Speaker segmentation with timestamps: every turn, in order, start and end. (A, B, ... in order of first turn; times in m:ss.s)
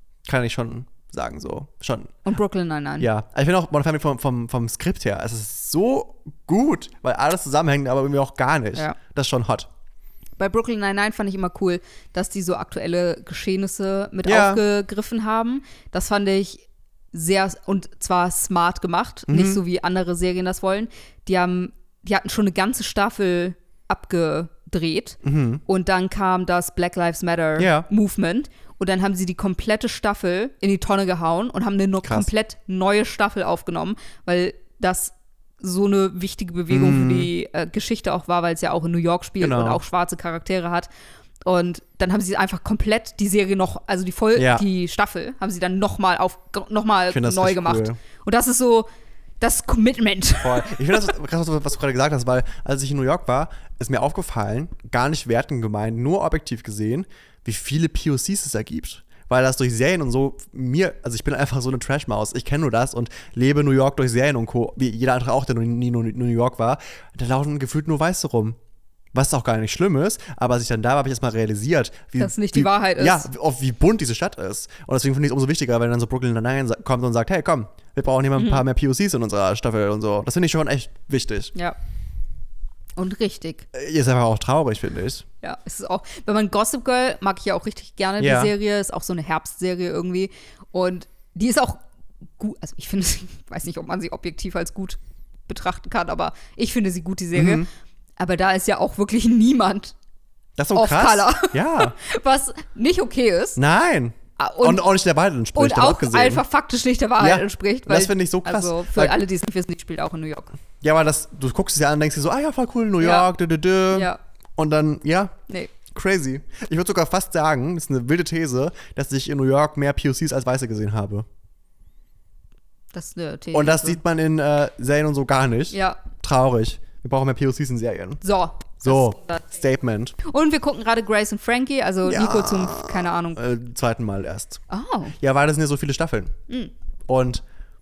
0:00.2-0:02.2 A
0:02.2-0:03.1 B
0:03.0-0:09.7 A
0:10.4-0:40.9 B
0:14.2-0:14.6 A
0:19.3-0:19.6 A
0:25.2-0:25.6 A
0:27.6-0:27.9 A
0:36.7-0:37.3 A
0:39.4-0:39.8 A
0:41.4-0:48.9 B
0:44.3-0:44.6 A
0:47.1-0:48.0 A
0:49.4-0:51.0 B
0:50.4-1:08.6 A
1:09.1-1:21.5 A
1:12.2-1:13.3 B
1:18.4-1:18.6 B
1:23.0-1:23.6 B
1:23.7-1:25.2 A
1:25.4-1:31.8 B
1:28.2-1:28.5 A
1:32.4-1:37.6 B
1:37.3-1:37.7 A
1:38.2-1:39.9 B
1:40.6-1:41.9 A
1:40.7-1:43.6 B
1:43.6-1:46.4 A
1:44.4-1:44.8 B
1:45.5-1:50.5 B
1:47.2-1:49.2 A
1:50.8-2:01.2 A
1:53.0-1:53.3 B
1:53.9-1:54.2 B
2:02.9-2:04.0 B
2:03.5-2:08.2 A
2:05.7-2:06.0 B
2:08.2-2:09.4 B
2:08.8-2:10.1 A
2:10.2-2:13.4 B
2:12.0-2:14.6 A
2:14.7-2:15.2 B
2:15.2-2:16.3 A
2:17.1-2:17.4 A